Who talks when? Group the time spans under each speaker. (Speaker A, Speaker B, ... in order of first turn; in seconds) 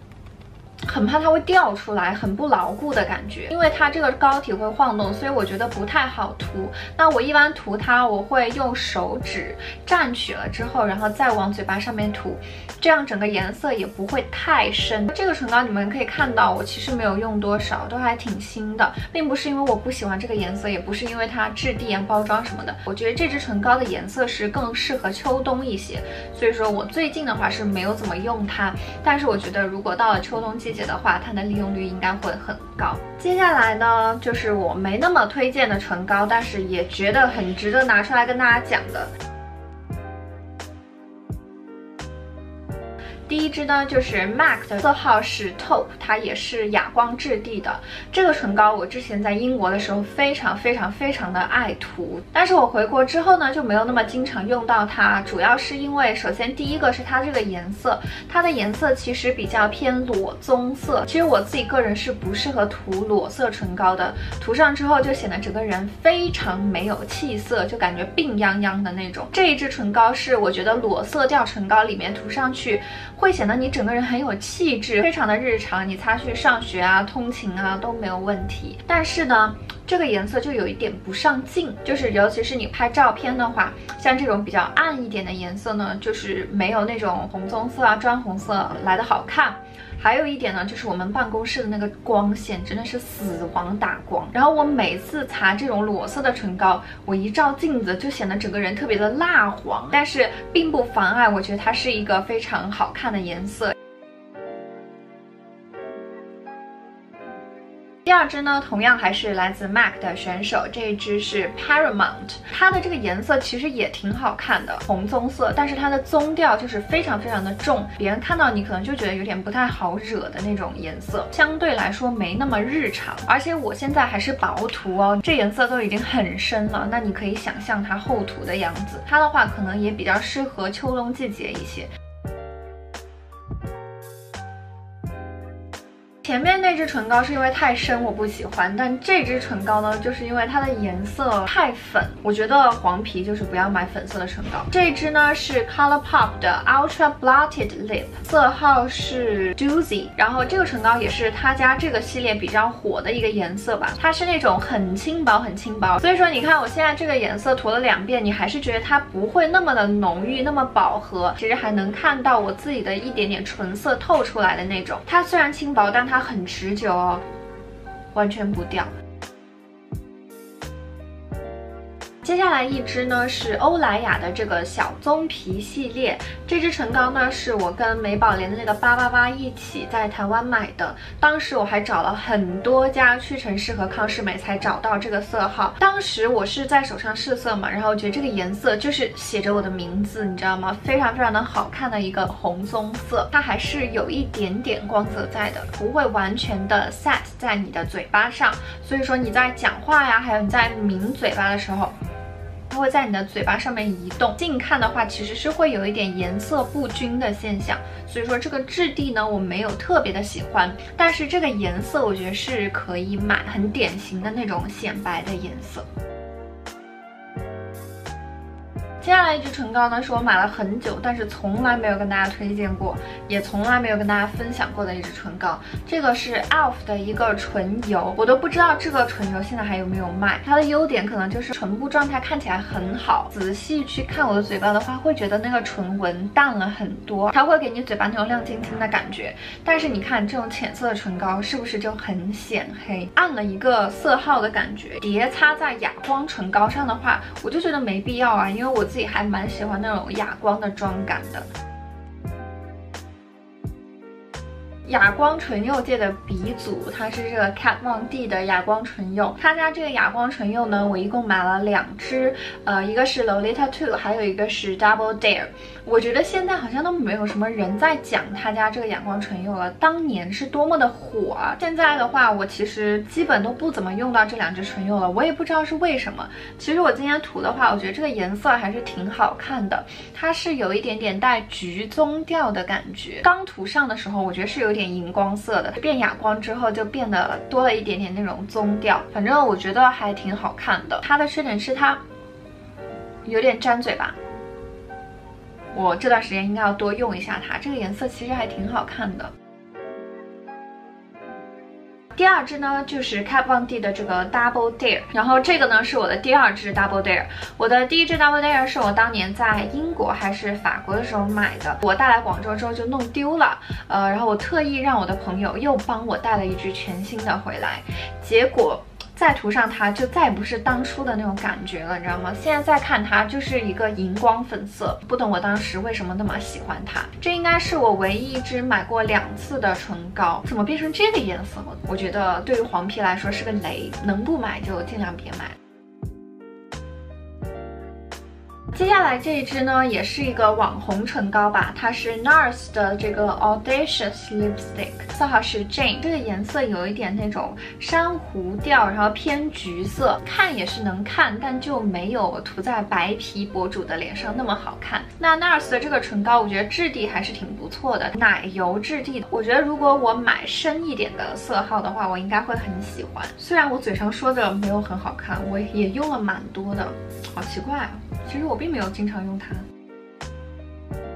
Speaker A: 0.8-39.1, 43.3-103.8, 108.1-131.9, 136.2-167.2, 168.1-168.9, 172.2-201.9, 202.7-215.9, 219.0-251.5, 254.9-292.0, 293.2-294.2, 295.7-299.3, 302.1-335.6, 338.7-369.7